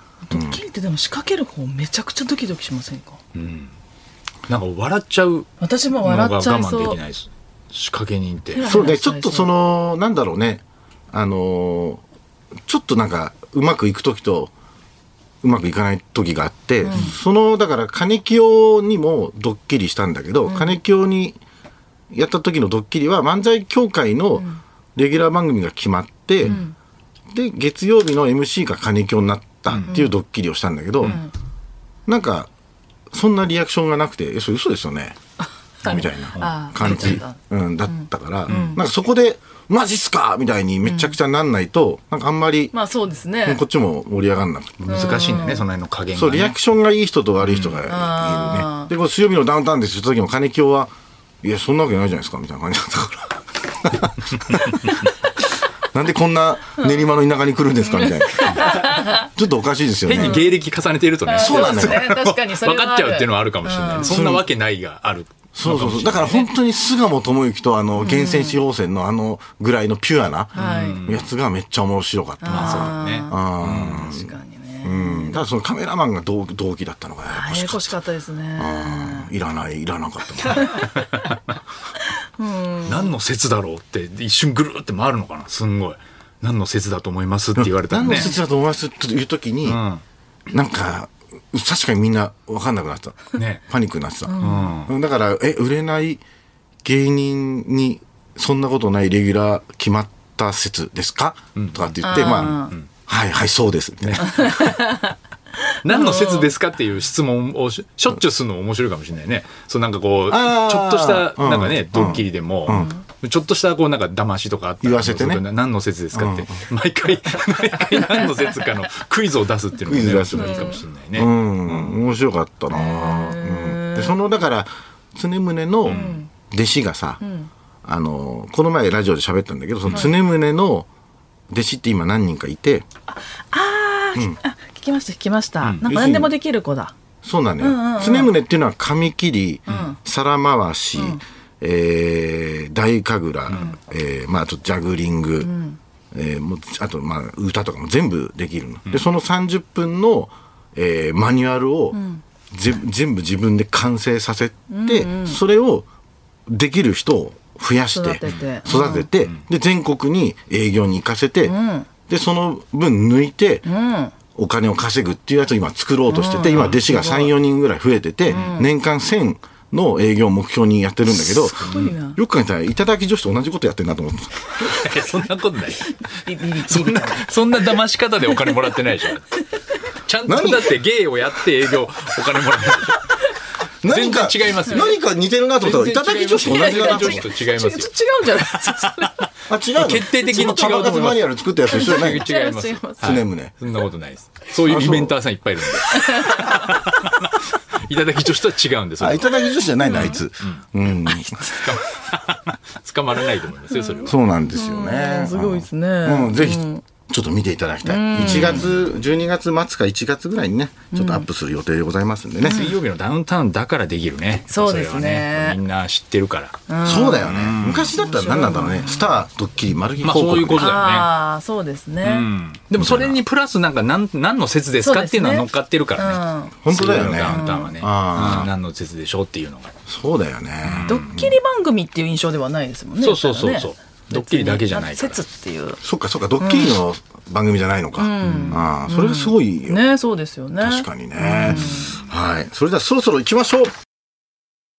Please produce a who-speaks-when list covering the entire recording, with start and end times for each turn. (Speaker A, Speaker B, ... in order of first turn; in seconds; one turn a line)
Speaker A: 0.2-3.2
Speaker B: 0.3-0.6
Speaker C: 3.3-3.7
Speaker C: 4.5-5.5
Speaker A: 5.6-7.0
Speaker C: 6.0-8.7
Speaker A: 8.5-9.5
Speaker B: 8.6-12.0
Speaker B: 12.7-14.5
Speaker B: 15.4-21.4
Speaker A: 16.8-17.1
Speaker A: 20.5-20.8
Speaker B: 22.1-26.6
Speaker A: 26.4-26.7
Speaker B: 27.3-31.2
Speaker A: 29.9-30.1
Speaker A: 31.0-31.3
Speaker B: 32.1-32.5
Speaker B: 33.1-35.2
Speaker B: 35.8-42.7
Speaker A: 35.8-38.8
Speaker C: 36.3-37.2
Speaker C: 38.5-38.8
Speaker A: 40.9-41.1
Speaker A: 42.7-43.6
Speaker B: 43.4-45.2
Speaker A: 44.9-45.6
Speaker C: 44.9-46.5
Speaker B: 46.1-54.1
Speaker C: 47.4-47.8
Speaker A: 47.9-48.9
Speaker A: 54.6-55.0
Speaker B: 55.9-60.4
Speaker A: 57.8-59.3
Speaker C: 60.0-66.5
Speaker A: 60.1-60.5
Speaker A: 61.2-64.2
Speaker B: 61.4-62.1
Speaker B: 64.0-64.5
Speaker B: 65.5-77.9
Speaker A: 68.0-68.6
Speaker A: 70.5-71.0
Speaker C: 70.5-71.3
Speaker A: 72.4-75.4
Speaker C: 72.5-74.1
Speaker A: 77.3-79.3
Speaker B: 78.6-80.8
Speaker A: 80.5-80.9
Speaker A: 82.4-83.1
Speaker C: 82.8-88.3
Speaker B: 87.6-89.8
Speaker A: 88.0-88.4
Speaker C: 89.7-90.0
Speaker B: 90.5-96.2
Speaker C: 93.3-93.6
Speaker A: 94.3-94.8
Speaker C: 94.4-94.9
Speaker B: 96.8-104.5
Speaker C: 101.5-102.9
Speaker A: 102.0-102.7
Speaker C: 104.0-104.5
Speaker A: 104.2-105.1
Speaker C: 105.8-121.9
Speaker A: 105.9-106.5
Speaker B: 110.3-112.9
Speaker A: 112.7-113.0
Speaker B: 114.8-115.4
Speaker B: 116.1-116.6
Speaker B: 119.9-127.2
Speaker A: 120.3-120.8
Speaker A: 122.7-124.2
Speaker C: 125.8-126.2
Speaker A: 125.9-126.3
Speaker A: 127.2-127.5
Speaker B: 127.8-130.9
Speaker C: 129.8-130.1
Speaker B: 131.5-132.8
Speaker A: 133.1-136.9
Speaker C: 135.6-135.9
Speaker B: 135.8-136.3
Speaker B: 137.2-145.5
Speaker A: 137.6-138.3
Speaker C: 139.7-139.9
Speaker A: 139.7-140.0
Speaker A: 140.9-141.2
Speaker A: 143.5-143.8
Speaker A: 145.4-145.8
Speaker B: 146.1-155.8
Speaker A: 151.9-152.2
Speaker A: 154.7-155.4
Speaker B: 156.5-161.5
Speaker A: 157.9-159.1
Speaker A: 161.4-161.9
Speaker B: 162.1-163.6
Speaker A: 163.6-164.1
Speaker B: 164.3-174.5
Speaker A: 166.1-167.3
Speaker C: 168.3-168.6
Speaker A: 168.3-168.7
Speaker C: 171.6-171.9
Speaker A: 171.6-172.2
Speaker C: 174.6-176.0
Speaker A: 176.1-177.3
Speaker C: 176.5-179.4
Speaker C: 180.1-183.2
Speaker B: 180.2-180.7
Speaker B: 183.8-187.3
Speaker C: 183.8-185.0
Speaker C: 185.6-187.9
Speaker A: 186.4-189.3
Speaker C: 188.5-189.0
Speaker B: 189.5-192.3
Speaker C: 189.8-199.3
Speaker A: 191.7-193.2
Speaker B: 193.0-193.5
Speaker B: 194.6-195.2
Speaker A: 195.9-196.7
Speaker B: 199.0-201.8
Speaker A: 199.8-200.2
Speaker C: 199.9-200.6
Speaker C: 201.3-204.2
Speaker A: 203.7-206.8
Speaker B: 204.1-212.7
Speaker A: 207.8-208.8
Speaker A: 210.9-211.3
Speaker C: 212.4-216.6
Speaker A: 214.5-215.6
Speaker A: 216.7-217.3
Speaker B: 216.8-220.7
Speaker C: 217.2-217.9
Speaker A: 217.9-219.2
Speaker C: 220.0-221.1
Speaker A: 220.6-222.3
Speaker C: 222.0-229.7
Speaker B: 222.8-223.2
Speaker A: 224.8-226.6
Speaker B: 226.6-228.5
Speaker A: 227.2-227.7
Speaker B: 229.8-231.3
Speaker C: 230.6-231.0
Speaker A: 230.9-235.8
Speaker C: 233.0-235.2
Speaker B: 235.8-239.8
Speaker A: 236.4-236.8
Speaker A: 238.0-242.0
Speaker C: 238.2-238.6
Speaker B: 240.6-243.7